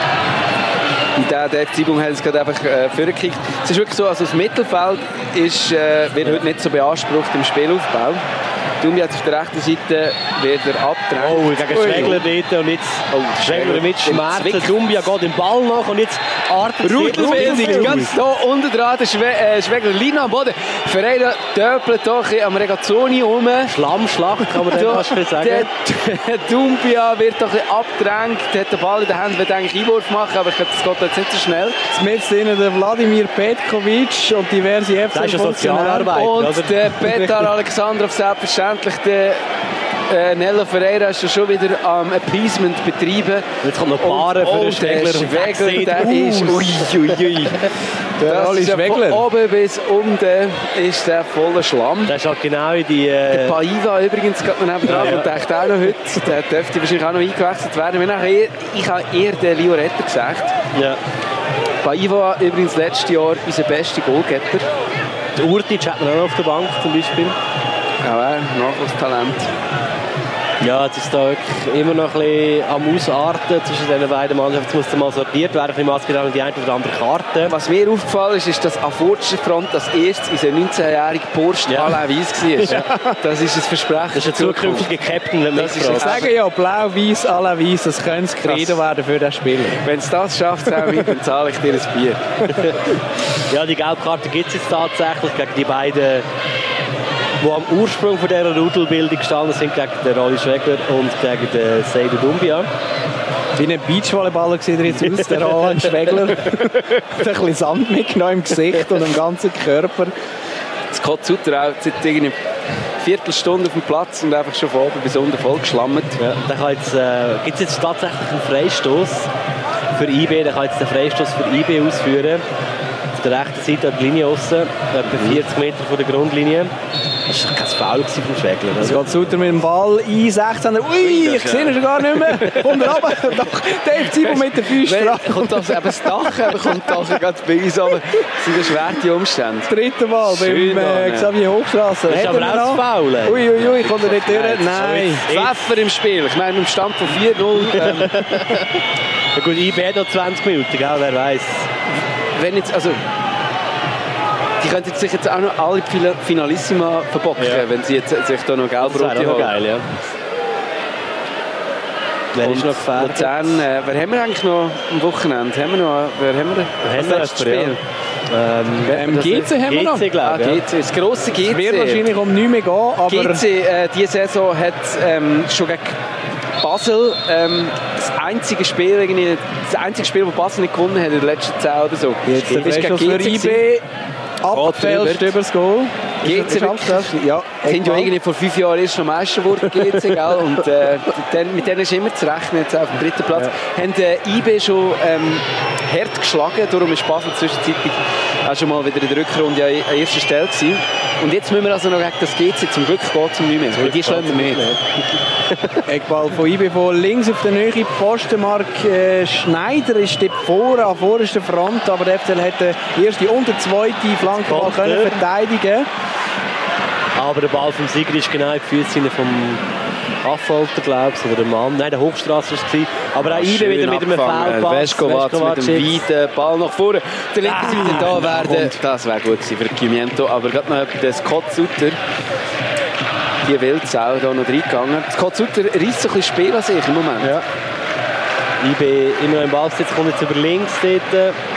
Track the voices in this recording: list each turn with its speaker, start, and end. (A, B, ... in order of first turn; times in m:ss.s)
0:01.2-0:08.2 A
0:08.8-0:12.2 A
0:11.2-0:18.1 B
0:13.1-0:14.8 A
0:16.8-0:23.8 A
0:17.0-0:18.0 C
0:23.7-0:25.7 B
0:24.6-0:31.8 A
0:31.9-0:36.2 C
0:35.1-0:37.4 B
0:36.1-0:39.4 A
0:40.1-0:47.7 A
0:43.6-0:47.4 B
0:48.2-0:49.2 C
0:48.2-0:52.2 A
0:52.1-0:53.6 B
0:53.3-1:00.6 A
0:54.8-0:55.3 B
1:00.7-1:01.0 B
1:01.8-1:04.7 A
1:05.4-1:07.4 B
1:08.0-1:09.5 A
1:10.6-1:17.5 B
1:17.5-1:25.0 A
1:21.7-1:22.0 B
1:22.7-1:23.2 C
1:24.1-1:26.3 B
1:25.6-1:26.3 A
1:25.9-1:29.8 C
1:28.4-1:28.8 A
1:29.8-1:32.5 A
1:32.5-1:32.9 B
1:33.5-1:36.2 B
1:37.4-1:42.7 B
1:43.6-1:50.1 C
1:50.9-1:52.4 A
1:53.0-1:56.2 A
1:56.2-1:59.3 B
2:00.0-2:02.4 B
2:03.1-2:06.7 B
2:07.3-2:09.1 B
2:08.8-2:15.8 C
2:11.0-2:13.2 A
2:14.1-2:19.7 A
2:19.7-2:25.3 C
2:20.2-2:21.3 A
2:22.1-2:25.6 B
2:25.2-2:28.3 A
2:27.8-2:28.8 B
2:29.4-2:31.7 B
2:32.4-2:33.0 A
2:34.6-2:39.5 A
2:37.4-2:37.7 B
2:38.8-2:39.9 B
2:42.3-2:43.6 B
2:42.4-2:47.8 A
2:46.8-2:47.8 B
2:48.3-2:50.6 B
2:48.9-2:50.1 C
2:49.1-2:49.5 A
2:50.2-2:52.1 A
2:51.3-2:53.4 C
2:53.1-2:56.0 A
2:56.6-3:03.6 A
3:02.3-3:03.8 C
3:02.5-3:02.8 B
3:04.4-3:08.1 C
3:04.5-3:05.4 A
3:06.2-3:07.1 A
3:07.6-3:24.6 A
3:23.7-3:24.9 B
3:25.5-3:25.8 B
3:25.8-3:35.9 C
3:34.4-3:35.2 B
3:37.2-3:39.7 B
3:40.2-3:46.0 B
3:43.2-3:52.0 A
3:47.4-3:48.8 C
3:53.4-3:57.4 A
3:58.6-4:01.4 B